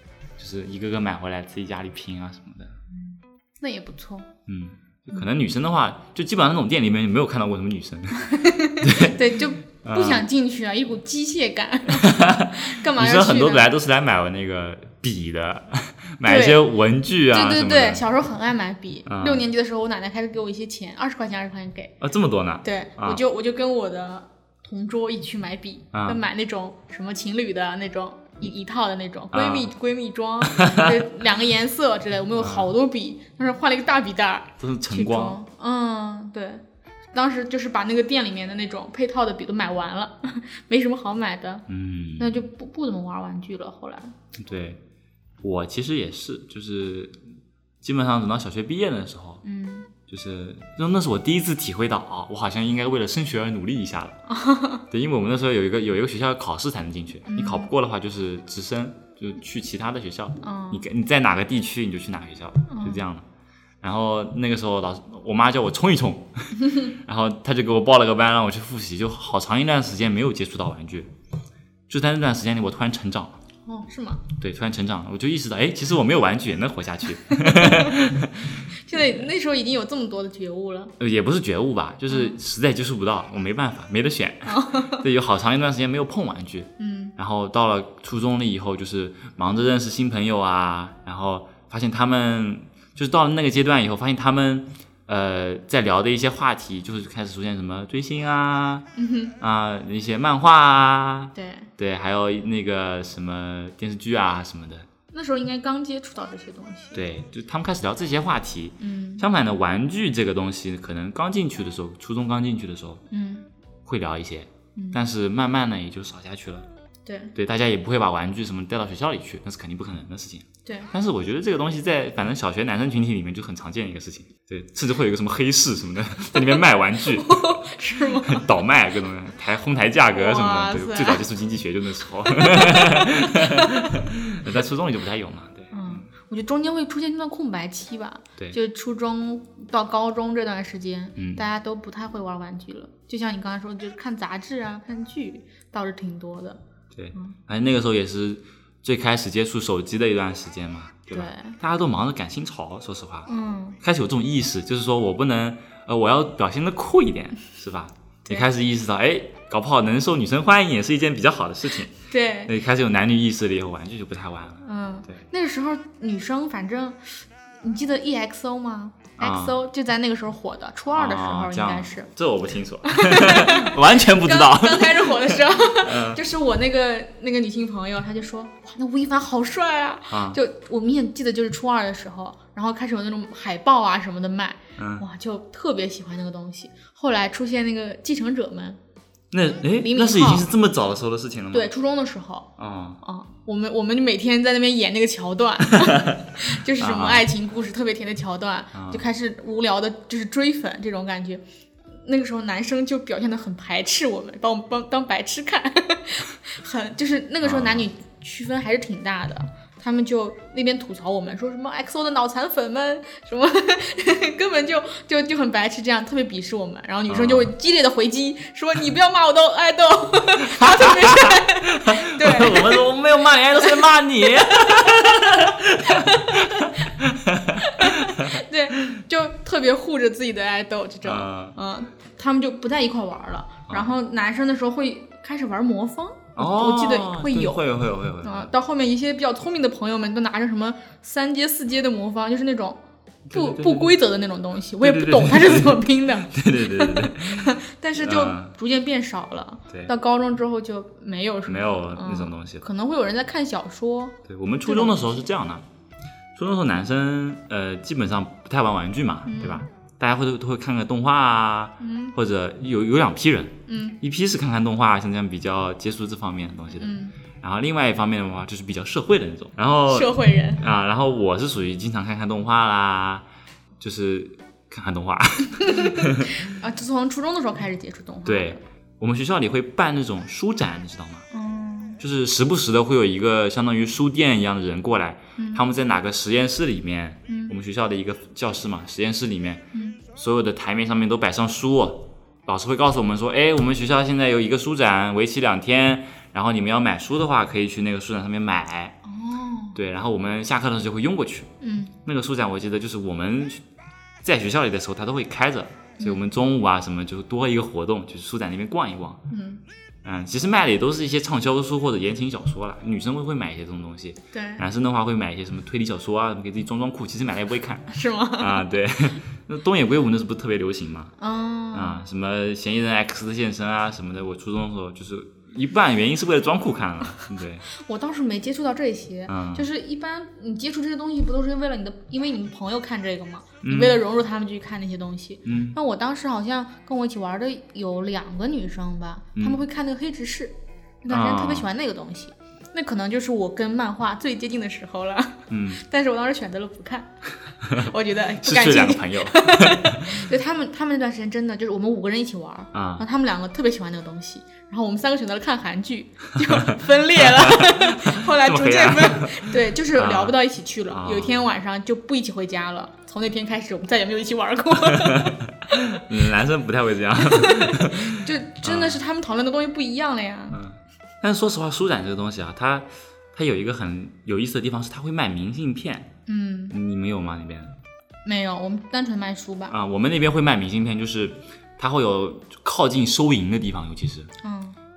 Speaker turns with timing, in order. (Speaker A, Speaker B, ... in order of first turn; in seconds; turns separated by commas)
Speaker A: 0.4-2.7, Speaker B: 2.9-4.3, Speaker A: 4.5-10.3, Speaker B: 8.2-13.7, Speaker A: 11.9-18.0, Speaker B: 16.2-16.7, Speaker B: 17.3-21.9, Speaker A: 19.1-19.5, Speaker A: 22.0-23.2, Speaker B: 22.6-36.6, Speaker A: 25.9-26.2, Speaker A: 29.3-29.7, Speaker A: 30.5-31.0, Speaker A: 32.4-32.7, Speaker A: 34.6-35.4, Speaker B: 37.1-41.6, Speaker A: 41.7-42.3, Speaker B: 42.2-44.1, Speaker A: 44.4-44.8, Speaker A: 45.4-47.2, Speaker A: 47.8-49.4, Speaker B: 49.4-49.9, Speaker A: 50.1-54.2, Speaker B: 54.3-54.8, Speaker A: 54.9-63.2, Speaker B: 57.3-57.7, Speaker B: 60.4-60.8, Speaker B: 62.7-63.0, Speaker A: 63.8-71.1, Speaker A: 71.9-73.3, Speaker B: 73.6-74.2, Speaker A: 74.4-79.2, Speaker B: 77.3-77.9, Speaker B: 78.7-80.9, Speaker A: 81.0-98.8, Speaker B: 82.1-82.4, Speaker B: 84.5-85.0, Speaker B: 86.8-87.1, Speaker B: 99.0-99.3, Speaker A: 99.4-104.9, Speaker B: 101.3-101.7, Speaker B: 105.1-107.0, Speaker A: 106.9-113.0, Speaker B: 108.8-109.2, Speaker B: 113.1-113.5, Speaker A: 113.8-116.7, Speaker B: 114.8-115.0, Speaker B: 117.0-117.3, Speaker A: 117.3-136.0, Speaker B: 120.7-120.9, Speaker B: 127.0-128.5, Speaker B: 130.1-131.2, Speaker B: 132.4-133.9, Speaker B: 135.7-146.6, Speaker A: 141.2-141.4, Speaker A: 146.9-153.3, Speaker B: 151.1-151.6, Speaker B: 153.3-153.8, Speaker A: 153.8-161.9, Speaker B: 162.1-162.5, Speaker A: 162.4-165.2, Speaker B: 164.6-172.1, Speaker A: 169.2-169.6, Speaker A: 170.9-176.2, Speaker B: 172.8-188.8, Speaker A: 180.1-180.4, Speaker A: 184.8-185.0, Speaker A: 189.3-191.7, Speaker B: 189.8-190.5, Speaker B: 191.5-192.5, Speaker A: 192.6-193.0, Speaker B: 193.0-201.4, Speaker A: 195.7-197.3, Speaker A: 198.7-199.0, Speaker B: 202.0-222.9, Speaker A: 207.4-207.8, Speaker A: 217.1-217.5, Speaker A: 220.5-228.4, Speaker B: 223.6-226.9, Speaker B: 227.6-237.6, Speaker A: 231.0-231.6, Speaker A: 236.3-238.5, Speaker B: 238.2-255.2, Speaker A: 243.3-244.0, Speaker A: 244.8-248.5, Speaker A: 251.5-252.6, Speaker A: 254.3-255.6, Speaker A: 256.4-273.2, Speaker B: 259.2-259.7, Speaker B: 261.8-262.1, Speaker B: 263.7-264.0, Speaker B: 266.8-267.1, Speaker B: 269.9-270.6, Speaker A: 273.8-276.4, Speaker B: 275.6-278.6, Speaker A: 278.2-281.2, Speaker B: 281.3-282.0, Speaker A: 282.0-289.6, Speaker B: 285.4-285.6, Speaker B: 287.3-287.5, Speaker B: 289.7-290.0, Speaker A: 290.1-298.9, Speaker B: 299.0-299.8, Speaker A: 299.7-301.5, Speaker B: 301.6-301.9, Speaker A: 302.1-303.6, Speaker A: 304.2-309.2, Speaker B: 309.3-309.6, Speaker A: 310.0-321.1, Speaker B: 314.3-314.6, Speaker B: 317.9-318.6, Speaker B: 321.2-322.0, Speaker A: 321.7-327.6, Speaker B: 327.7-347.1, Speaker A: 329.3-329.7, Speaker A: 333.6-334.0, Speaker A: 335.4-335.8, Speaker A: 339.4-339.6, Speaker A: 341.1-341.7, Speaker A: 345.5-345.8, Speaker A: 347.7-350.3, Speaker B: 347.7-365.8, Speaker A: 352.7-353.1, Speaker A: 356.4-360.4, Speaker A: 360.9-361.5, Speaker A: 364.8-369.0, Speaker B: 367.2-370.6, Speaker A: 370.5-376.1, Speaker B: 376.3-376.8, Speaker A: 376.7-377.7, Speaker B: 378.2-379.7, Speaker A: 379.7-384.3, Speaker B: 384.4-384.8